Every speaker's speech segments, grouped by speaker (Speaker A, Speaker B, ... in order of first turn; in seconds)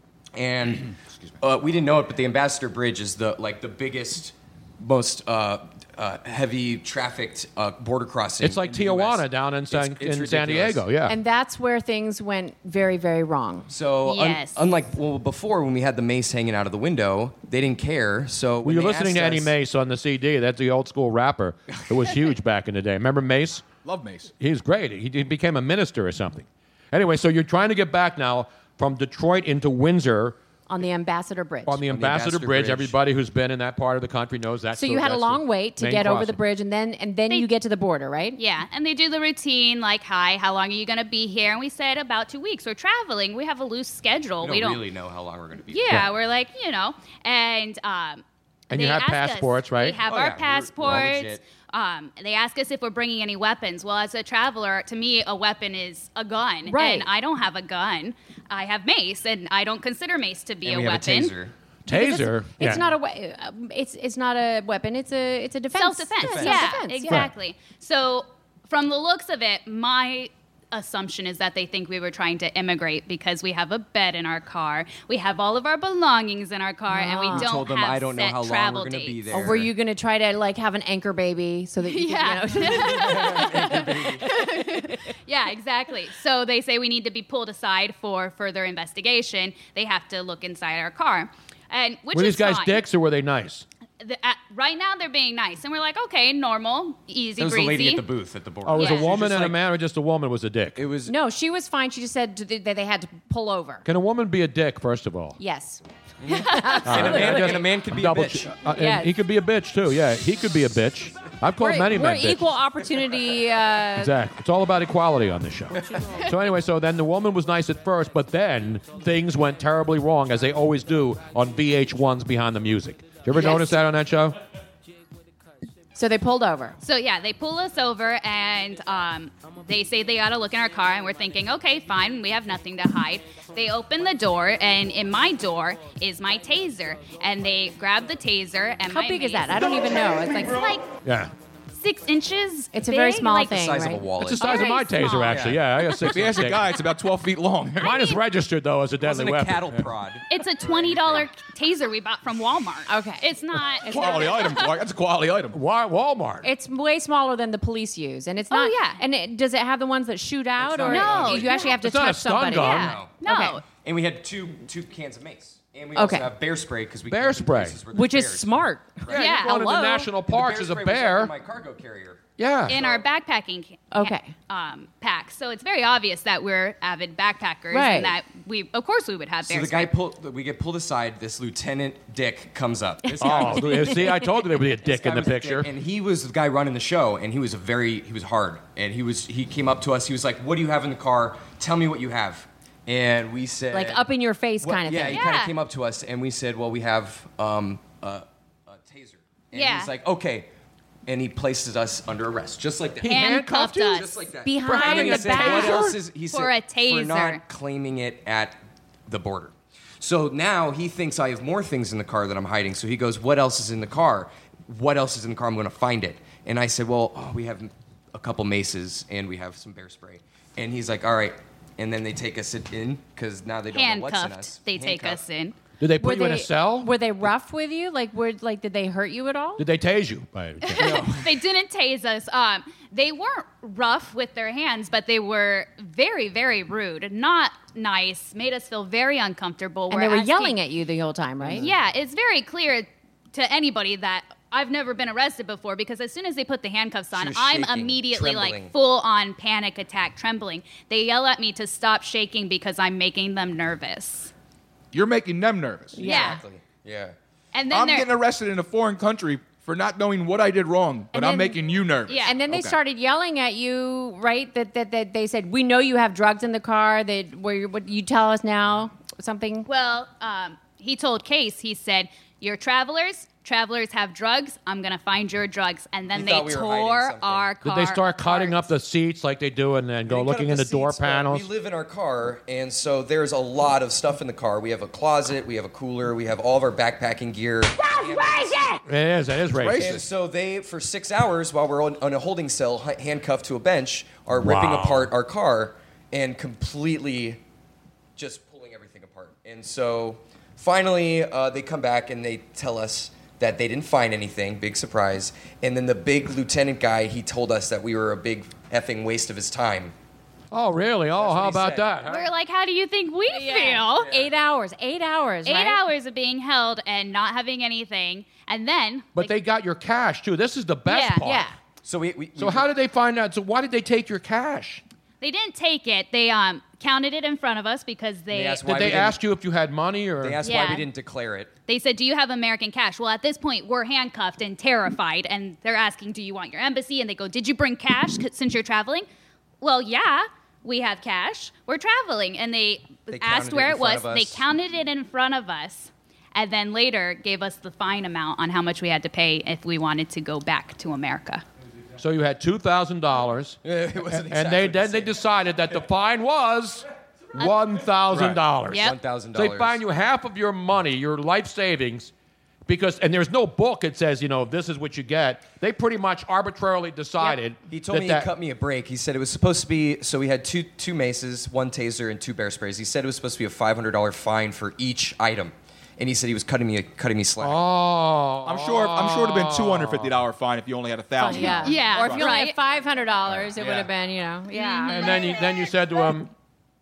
Speaker A: 0.3-10.8, 13.7-19.5, 31.9-32.9, 44.4-46.1, 50.0-51.4, 60.6-61.5, 66.2-66.8, 77.3-79.7, 82.6-84.3, 97.4-99.6, 100.8-101.1, 106.2-108.5, 143.5-144.6, 145.3-145.6, 149.0-151.3, 160.6-161.7, 162.6-163.1, 163.7-169.2, 170.3-173.0, 179.4-184.2, 184.8-194.1, 194.6-200.5, 201.1-225.2, 241.4-241.7, 247.1-248.7, 256.0-257.1, 276.1-277.5, 280.1-288.8, 289.7-297.4, 298.1-309.9, 311.1-312.2, 314.0-314.3, 321.8-322.7, 328.3-329.2, 330.2-331.5, 343.1-344.4, 353.6-355.2, 358.1-359.8, 367.7-377.6
Speaker B: 8.4-11.2, 18.6-23.6, 24.4-30.4, 31.7-36.4, 48.7-50.0, 61.9-62.9, 92.1-93.7, 98.6-100.8, 103.8-105.4, 106.8-112.4, 114.0-124.4, 141.0-141.3, 144.2-146.7, 147.8-149.9, 155.5-156.5, 161.7-162.9, 167.1-167.8, 169.1-171.3, 172.4-172.8, 183.2-185.7, 203.0-204.0, 204.6-205.9, 225.8-226.9, 229.6-231.2, 277.6-281.5, 288.9-290.0, 294.3-295.1, 310.5-312.2, 319.1-321.4, 322.4-324.8, 328.6-330.4, 352.0-362.1, 362.7-368.3, 377.4-380.1, 384.9-386.3
Speaker C: 11.1-13.7, 30.7-31.8, 34.8-38.4, 56.6-57.1, 61.9-67.3, 76.9-77.5, 79.3-83.6, 84.3-85.0, 101.1-103.8, 105.4-107.6, 108.7-109.1, 111.6-114.1, 123.3-123.8, 125.9-126.8, 138.9-140.7, 142.7-145.1, 152.9-153.2, 153.8-154.3, 156.4-163.6, 165.9-166.3, 167.9-170.1, 173.9-174.3, 177.7-178.1, 183.0-184.1, 193.7-195.2, 204.4-206.0, 226.0-229.6, 239.9-241.7, 256.0-256.4, 261.1-261.6, 262.2-269.7, 313.3-315.8, 321.2-321.5, 381.2-385.2
Speaker D: 14.0-14.6, 38.4-44.8, 45.7-61.3, 65.7-79.4, 81.8-92.8, 94.0-98.0, 98.8-99.2, 126.8-140.9, 141.8-143.7, 144.4-145.4, 150.3-154.6, 158.5-159.0, 160.9-161.8, 162.5-163.6, 169.1-169.5, 172.7-179.9, 195.1-195.5, 199.5-199.9, 203.1-204.1, 206.3-207.4, 223.7-225.6, 230.6-240.6, 241.6-254.3, 256.0-256.4, 257.5-258.1, 262.1-262.4, 269.7-278.6, 312.1-314.1, 315.4-319.3, 320.9-321.2, 325.2-328.7, 330.4-330.9, 331.7-339.1, 339.6-351.4, 358.7-359.0, 381.5-382.6, 384.5-385.1
Speaker E: 23.8-24.3, 146.0-148.1, 153.9-155.6, 254.9-256.1, 257.7-262.8, 289.5-290.1, 378.4-382.3, 383.6-383.9